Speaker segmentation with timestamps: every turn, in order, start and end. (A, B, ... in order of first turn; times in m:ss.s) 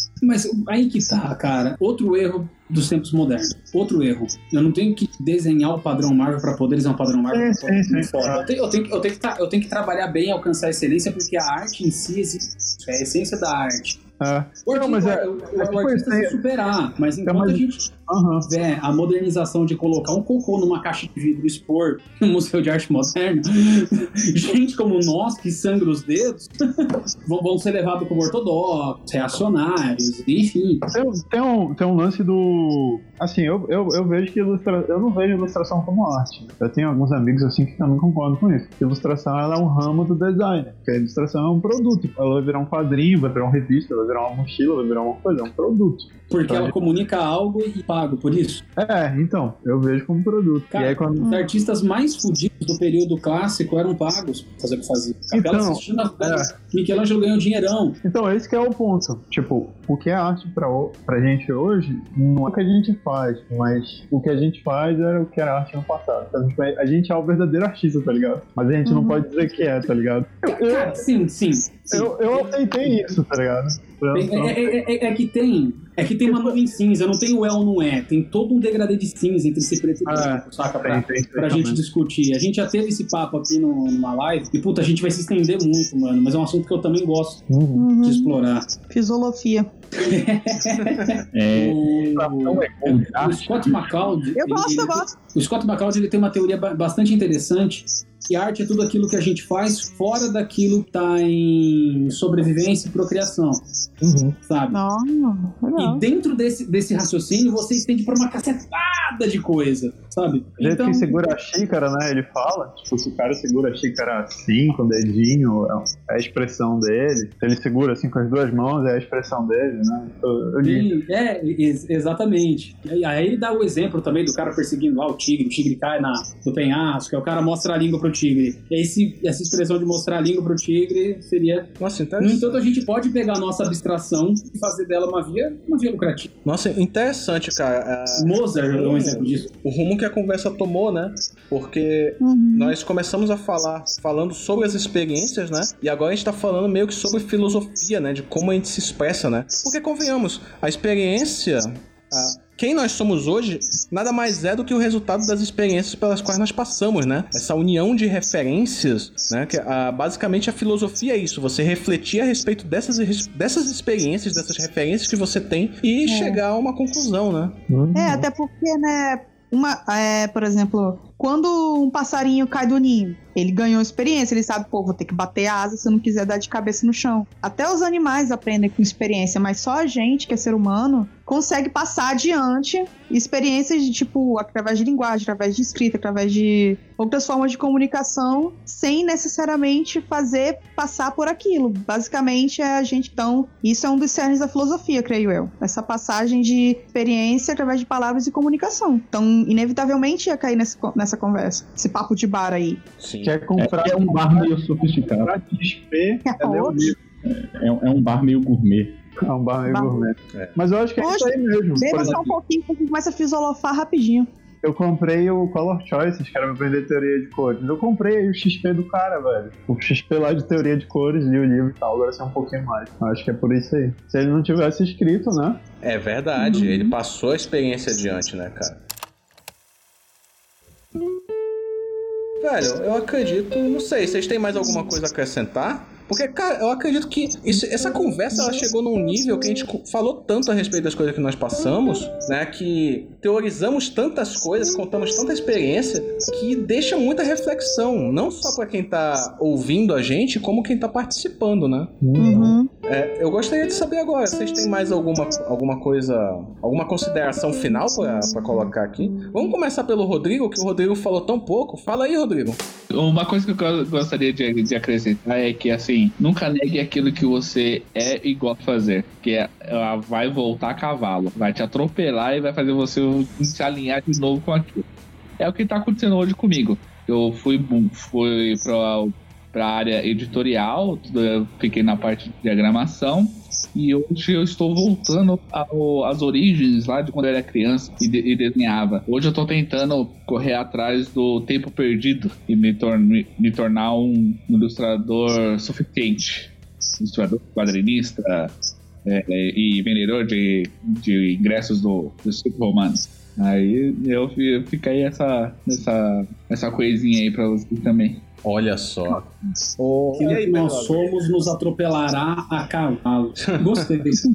0:00.2-0:14.0 A
0:07.3-0:08.4 B
0:14.2-0:16.4 B
0:14.6-0:17.9 A
0:17.2-0:18.5 B
0:18.4-0:30.8 A
0:30.9-0:46.7 B
0:46.3-0:48.6 A
0:48.8-0:51.3 B
0:50.7-0:58.0 A
0:51.2-0:51.5 C
0:55.3-0:56.5 B
0:58.0-1:11.0 B
1:08.8-1:09.2 C
1:10.4-1:13.0 A
1:11.9-1:14.7 B
1:14.1-1:27.4 A
1:16.2-1:16.6 B
1:20.0-1:21.8 B
1:27.5-1:27.9 B
1:27.7-1:29.7 C
1:28.0-1:28.7 A
1:29.9-1:43.6 A
1:31.3-1:33.8 D
1:34.4-1:35.1 C
1:44.0-1:44.4 B
1:44.4-1:44.8 A
1:44.7-1:46.0 C
1:45.8-1:51.0 A
1:50.6-2:00.9 B
2:00.6-2:11.7 A
2:11.8-2:12.8 E
2:12.2-2:16.3 A
2:16.4-2:47.6 E
2:18.2-2:19.5 A
2:22.2-2:22.8 C
2:46.0-2:46.4 C
2:47.7-2:48.3 B
2:47.9-3:22.8 C
3:23.0-3:23.4 E
3:23.2-3:27.0 B
3:23.6-3:25.4 D
3:26.2-3:26.9 C
3:27.2-3:29.0 D
3:29.2-3:32.2 B
3:29.7-3:30.0 C
3:31.0-3:34.3 C
3:31.8-3:32.3 D
3:34.6-3:45.6 B
3:45.8-3:48.8 E
3:46.4-3:46.8 C
3:52.4-4:11.9 E
4:12.0-4:12.6 B
4:12.2-4:12.7 C
4:12.8-4:22.6 E
4:22.9-4:34.8 F
4:35.4-5:08.2 F
5:08.4-5:11.4 E
5:10.2-5:14.2 A
5:13.4-5:13.8 E